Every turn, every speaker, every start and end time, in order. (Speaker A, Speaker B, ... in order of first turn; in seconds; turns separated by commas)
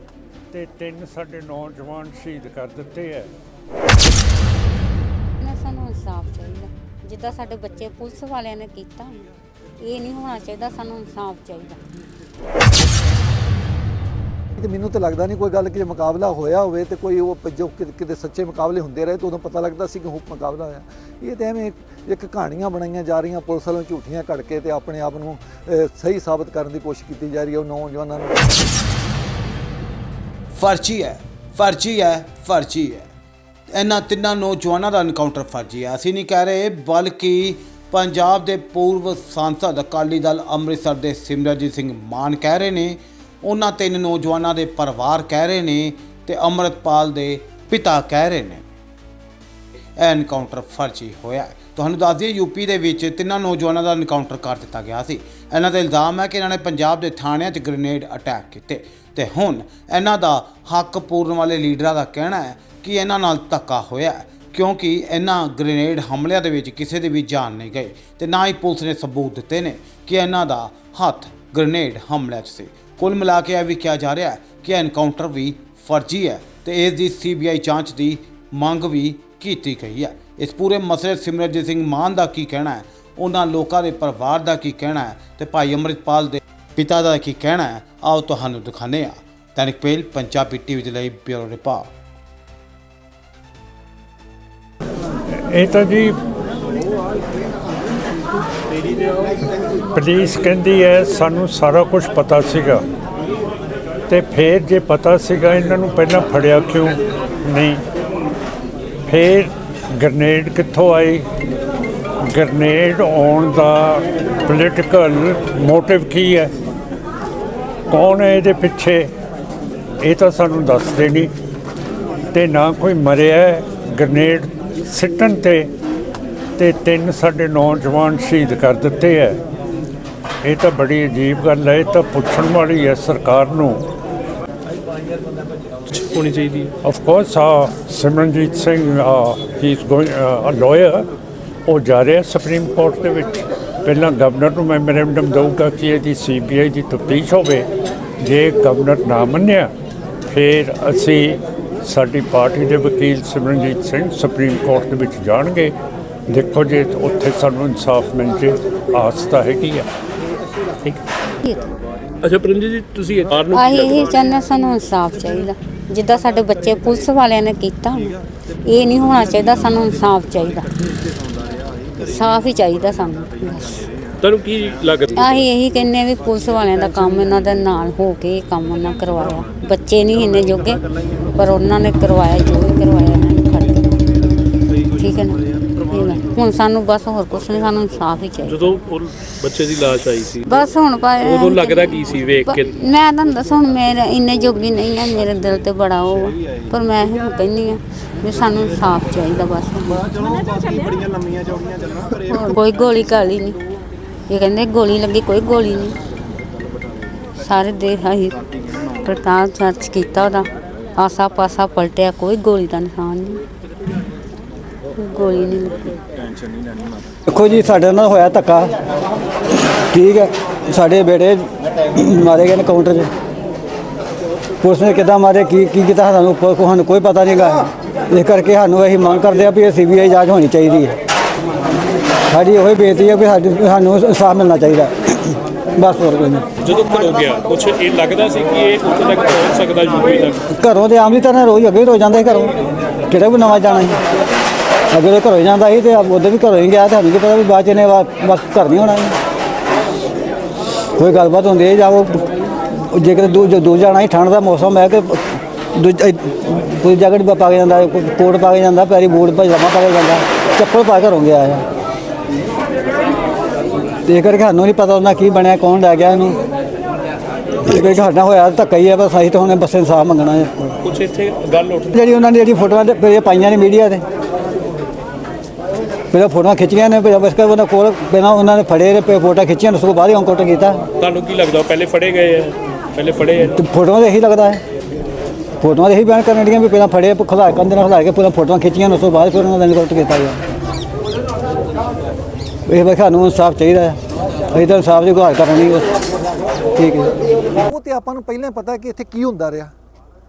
Speaker A: 0.5-3.3, Speaker B: 5.4-9.2, Speaker B: 9.8-11.8, Speaker C: 14.6-28.5, Speaker D: 30.6-33.1, Speaker D: 33.7-48.6, Speaker D: 50.0-91.9, Speaker A: 95.4-96.1, Speaker A: 99.9-102.8, Speaker A: 104.1-107.8, Speaker A: 109.0-111.2, Speaker A: 112.2-116.5, Speaker A: 117.9-119.1, Speaker A: 120.0-121.3, Speaker A: 122.3-125.7, Speaker A: 126.6-129.4, Speaker A: 130.4-133.8, Speaker E: 135.9-136.7, Speaker A: 136.8-141.1, Speaker A: 141.7-147.7, Speaker A: 148.2-149.7, Speaker A: 150.3-155.7, Speaker A: 156.3-159.9, Speaker E: 162.2-164.1, Speaker B: 163.5-170.7, Speaker B: 172.0-173.9, Speaker E: 174.2-175.4, Speaker B: 175.2-180.8, Speaker B: 181.3-184.0, Speaker B: 184.9-188.7, Speaker E: 188.5-190.6, Speaker B: 190.4-200.1, Speaker E: 191.2-192.7, Speaker B: 202.1-203.6, Speaker B: 204.3-206.0, Speaker B: 207.4-208.4, Speaker B: 209.0-213.4, Speaker B: 215.0-216.0, Speaker F: 217.3-218.7, Speaker F: 219.6-223.1, Speaker F: 224.6-231.0, Speaker F: 232.3-236.5, Speaker E: 236.6-240.4, Speaker F: 240.6-242.5, Speaker F: 243.1-244.0, Speaker F: 244.9-249.2, Speaker F: 250.9-261.6, Speaker F: 264.1-266.4, Speaker F: 267.6-270.8, Speaker E: 270.8-271.9, Speaker F: 271.9-274.0, Speaker F: 276.1-280.9, Speaker E: 281.0-283.6, Speaker F: 283.5-284.6, Speaker F: 285.6-290.4, Speaker F: 292.7-294.0, Speaker F: 294.5-296.0, Speaker F: 296.7-297.1, Speaker C: 297.6-299.7